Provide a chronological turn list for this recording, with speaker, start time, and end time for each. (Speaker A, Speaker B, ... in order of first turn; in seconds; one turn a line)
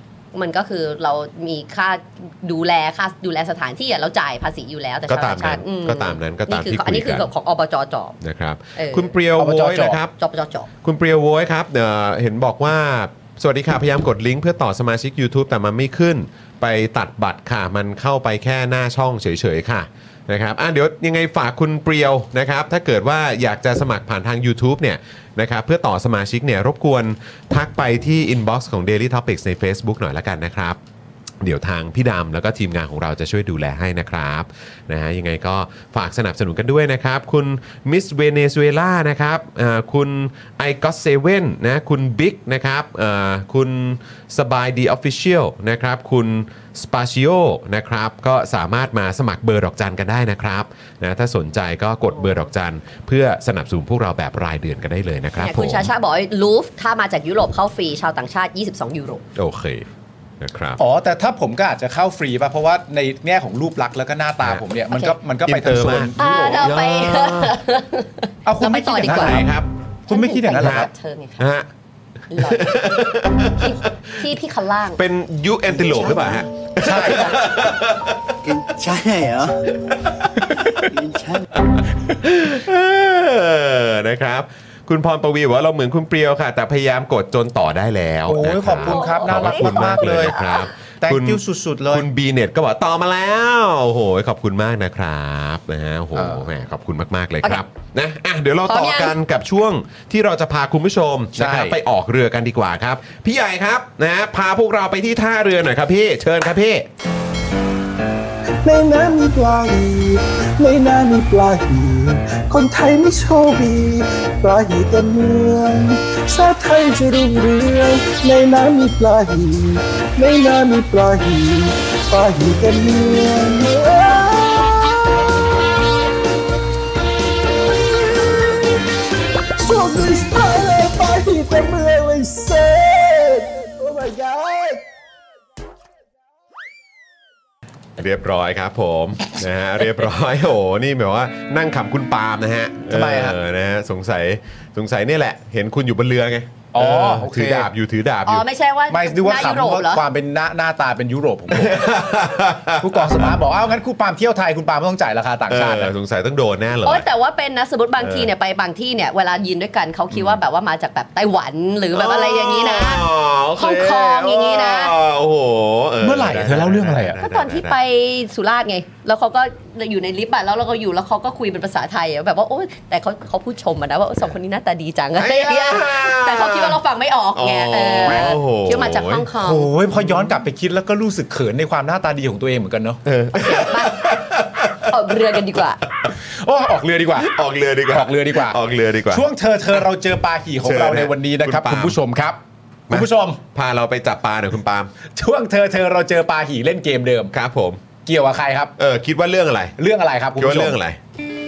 Speaker A: 0.3-8.2
Speaker B: 5.1-7.3
Speaker B: 8.2-10.1
Speaker A: 8.8-9.1
Speaker C: 9.3-10.0
Speaker A: 10.2-10.7
Speaker B: 10.8-30.8
Speaker B: 31.4-55.9
Speaker A: 55.4-59.2
Speaker B: 59.4-59.9
Speaker B: 60.4-60.8
Speaker C: 60.8-66.7
Speaker B: 65.5-67.6
Speaker A: 66.2-69.4
Speaker C: 68.5-69.5
Speaker B: 69.0-69.7
Speaker A: 70.1-71.4
Speaker C: 70.1-70.9
Speaker B: 70.6-70.9
Speaker B: 71.4-71.7
Speaker A: 72.3-73.0
Speaker B: 72.3-74.3
Speaker A: 73.6-75.0
Speaker B: 75.0-78.3
Speaker C: 76.8-77.4
Speaker D: 78.4-79.9
Speaker B: 80.1-80.5
Speaker D: 80.8-81.4
Speaker B: 82.2-106.9
Speaker C: 88.2-92.0
Speaker A: 88.8-90.7
Speaker C: 96.2-96.4
Speaker A: 98.6-99.2
Speaker C: 101.4-101.8
Speaker E: 108.6-124.7
Speaker E: 129.6-134.8
Speaker B: 138.0-148.4
Speaker C: 142.9-143.4
Speaker C: 146.7-147.7
Speaker A: 148.2-150.0
Speaker C: 148.9-152.1
Speaker B: 151.5-153.3
Speaker C: 152.8-155.9
Speaker B: 155.5-157.1
Speaker A: 156.8-164.9
Speaker B: 158.0-158.3
Speaker B: 160.1-160.4
Speaker B: 161.9-167.8
Speaker C: 166.0-167.2
Speaker A: 167.2-179.7
Speaker B: 175.2-176.8
Speaker B: 177.3-179.3
Speaker C: 179.3-183.0
Speaker B: 180.0-180.3
Speaker B: 183.0-185.4
Speaker A: 183.3-184.2
Speaker A: 184.8-185.8
Speaker C: 186.2-187.4
Speaker B: 187.2-189.3
Speaker C: 187.9-188.6
Speaker C: 189.1-192.4
Speaker B: 190.6-192.0
Speaker C: 192.9-193.4
Speaker B: 192.9-194.9
Speaker C: 195.2-197.3
Speaker B: 197.3-197.8
Speaker C: 198.0-198.7
Speaker B: 198.8-199.7
Speaker C: 199.8-200.8
Speaker B: 200.4-201.0